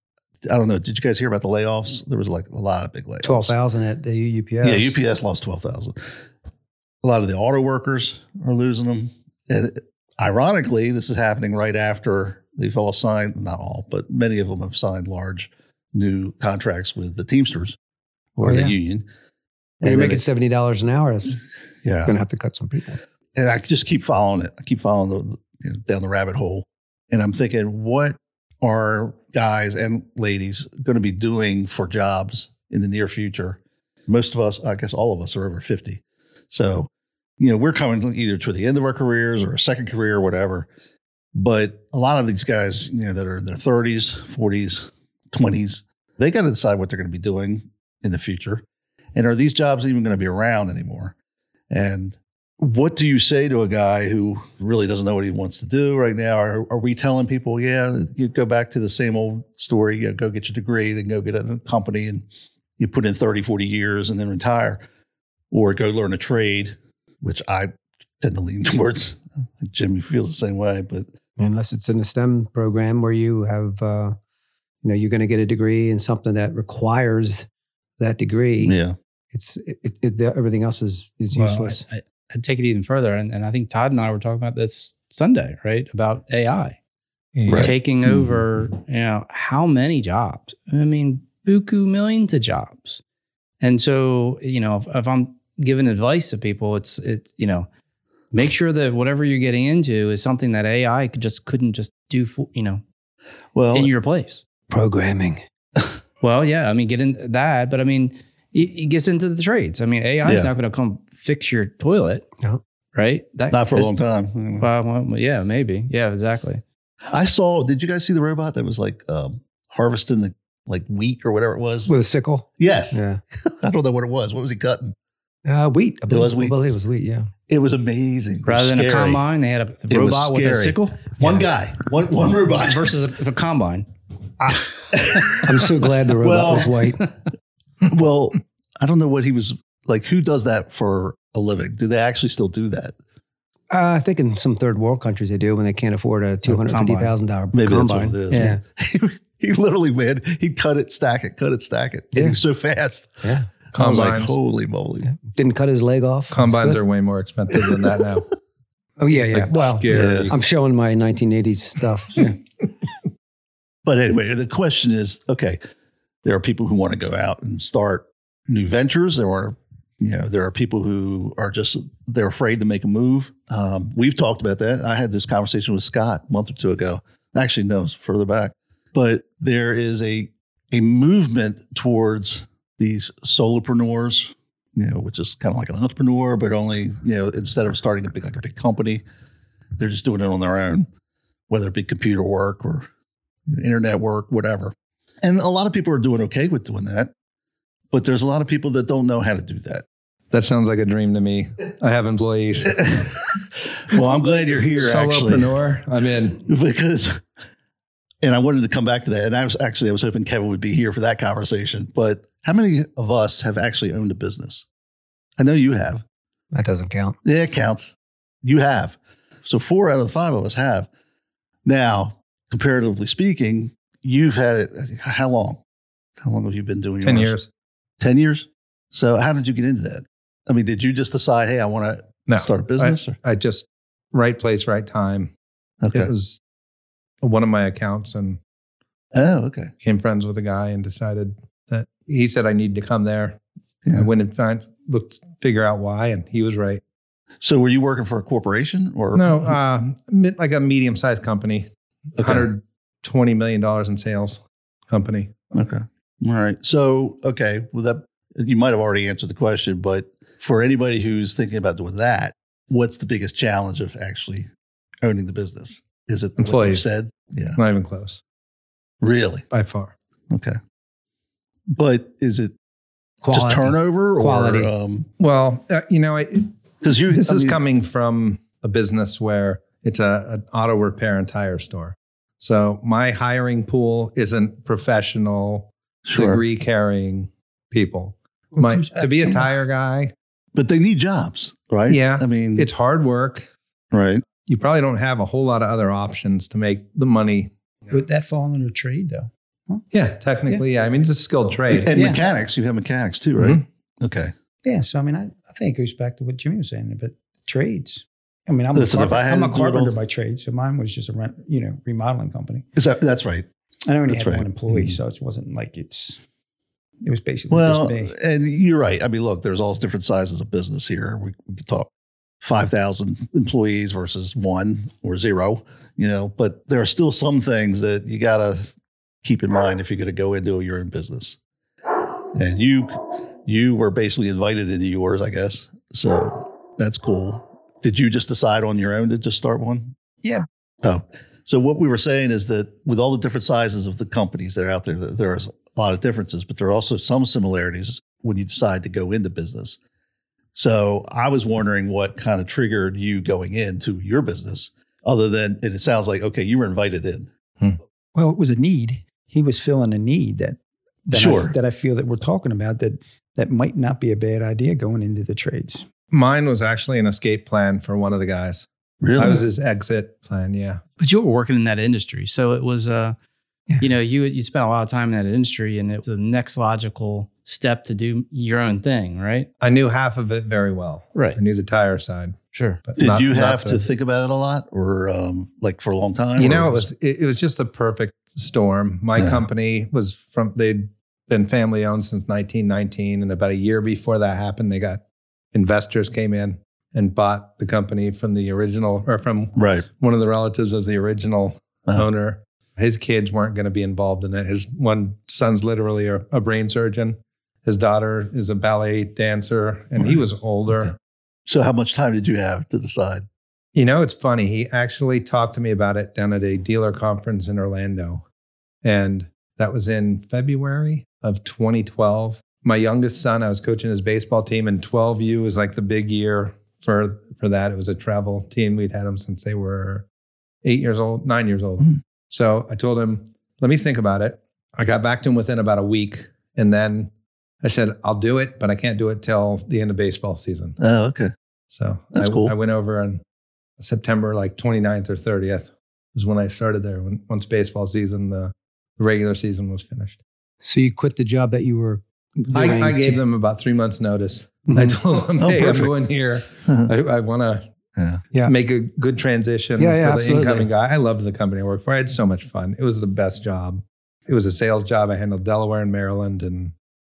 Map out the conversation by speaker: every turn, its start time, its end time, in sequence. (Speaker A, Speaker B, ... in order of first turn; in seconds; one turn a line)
Speaker A: 0.4-3.5
Speaker B: 3.2-5.0
Speaker A: 4.6-6.2
Speaker A: 7.0-17.8
Speaker A: 18.4-19.1
Speaker B: 18.4-18.7
Speaker A: 19.8-20.2
Speaker B: 19.8-21.4
Speaker A: 21.8-22.2
Speaker B: 22.1-23.0
Speaker A: 23.3-40.7
Speaker A: 41.3-51.1
Speaker A: 51.7-62.2
Speaker A: 62.8-64.8
Speaker A: 65.5-71.1
Speaker B: 71.4-74.2
Speaker B: 74.8-77.5
Speaker B: 78.0-78.8
Speaker A: 78.6-79.0
Speaker B: 79.3-81.8
Speaker C: 81.3-86.8
Speaker D: 87.3-87.7
Speaker A: 87.5-88.4
Speaker C: 87.5-93.0
Speaker C: 93.6-97.7
Speaker C: 98.3-102.8
Speaker A: 103.5-103.9
Speaker C: 103.7-104.4
Speaker B: 104.7-105.4
Speaker C: 106.2-112.3
Speaker A: 110.2-110.5
Speaker C: 112.9-113.9
Speaker A: 113.5-114.7
Speaker C: 114.6-116.6
Speaker A: 117.0-121.9
Speaker B: 121.9-123.2
Speaker A: 122.6-124.9
Speaker B: 125.5-127.3
Speaker A: 126.1-126.5
Speaker A: 127.5-129.2
Speaker C: 128.4-131.3
Speaker A: 129.9-132.9
Speaker C: 132.5-133.9
Speaker A: 134.4-135.6
Speaker B: 135.4-137.1
Speaker A: 136.2-136.7
Speaker A: 137.8-142.9
Speaker B: 143.7-148.6
Speaker C: 146.4-147.1
Speaker A: 147.5-155.1
Speaker C: 148.3-148.6
Speaker B: 152.1-152.4
Speaker B: 153.2-153.5
Speaker D: 153.7-154.3
Speaker B: 155.0-156.8
Speaker D: 156.3-158.3
Speaker A: 157.5-157.9
Speaker B: 159.0-162.4
Speaker D: 159.3-160.4
Speaker A: 159.9-160.3
Speaker A: 163.8-165.6
Speaker A: 166.2-189.0
Speaker A: 189.8-190.9
Speaker A: 191.5-192.9
Speaker A: 193.5-197.1
Speaker A: 197.9-199.8
Speaker D: 200.3-203.1
Speaker A: 202.8-205.5
Speaker D: 204.8-206.4
Speaker A: 206.4-207.2
Speaker A: 208.2-214.7
Speaker A: 215.4-216.0
Speaker B: 216.5-217.2
Speaker A: 217.2-220.9
Speaker A: 221.6-225.6
Speaker A: 226.2-227.3
Speaker D: 227.0-227.5
Speaker A: 228.0-233.2
Speaker D: 232.3-235.3
Speaker A: 235.8-236.1
Speaker D: 235.9-236.4
Speaker D: 237.2-238.4
Speaker A: 239.1-239.7
Speaker D: 239.8-246.8
Speaker A: 247.4-249.6
Speaker D: 249.1-255.3
Speaker A: 252.2-252.5
Speaker A: 255.5-264.5
Speaker A: 265.0-267.6
Speaker D: 266.4-266.9
Speaker D: 267.6-268.2
Speaker A: 269.0-269.4
Speaker D: 269.5-269.9
Speaker A: 270.3-270.6
Speaker A: 271.7-272.5
Speaker B: 273.2-274.7
Speaker A: 273.3-275.1
Speaker D: 275.2-276.5
Speaker A: 276.8-277.6
Speaker D: 277.1-290.1
Speaker A: 286.1-286.4
Speaker E: 288.6-289.5
Speaker A: 290.5-292.7
Speaker D: 291.9-293.5
Speaker A: 293.9-294.2
Speaker D: 294.3-297.9
Speaker E: 297.9-299.8
Speaker D: 299.9-301.9
Speaker A: 301.7-304.3
Speaker E: 301.9-302.2
Speaker D: 303.4-303.6
Speaker E: 304.6-312.6
Speaker A: 308.7-309.9
Speaker A: 312.8-313.4
Speaker E: 313.9-316.2
Speaker A: 314.1-315.0
Speaker E: 317.0-318.1
Speaker A: 317.5-321.9
Speaker A: 322.4-331.4
Speaker A: 332.3-339.9
Speaker A: 340.8-349.8
Speaker A: 350.5-357.3
Speaker E: 358.1-365.9
Speaker A: 361.1-361.6
Speaker D: 366.1-370.8
Speaker A: 369.0-369.4
Speaker C: 371.0-373.1
Speaker C: 373.8-379.5
Speaker D: 379.6-383.8
Speaker C: 382.5-382.8
Speaker A: 383.0-386.9
Speaker D: 386.4-410.9
Speaker A: 389.2-389.4
Speaker A: 399.6-399.8
Speaker A: 411.4-413.2
Speaker D: 413.7-418.2
Speaker D: 418.8-430.1
Speaker D: 430.6-437.1
Speaker D: 437.6-440.8
Speaker A: 440.8-441.3
Speaker D: 441.7-443.2
Speaker A: 442.1-442.5
Speaker D: 443.8-450.2
Speaker B: 450.6-453.2
Speaker D: 452.5-457.7
Speaker B: 454.7-455.0
Speaker A: 455.4-455.9
Speaker A: 457.9-458.2
Speaker D: 458.4-466.7
Speaker B: 459.8-460.7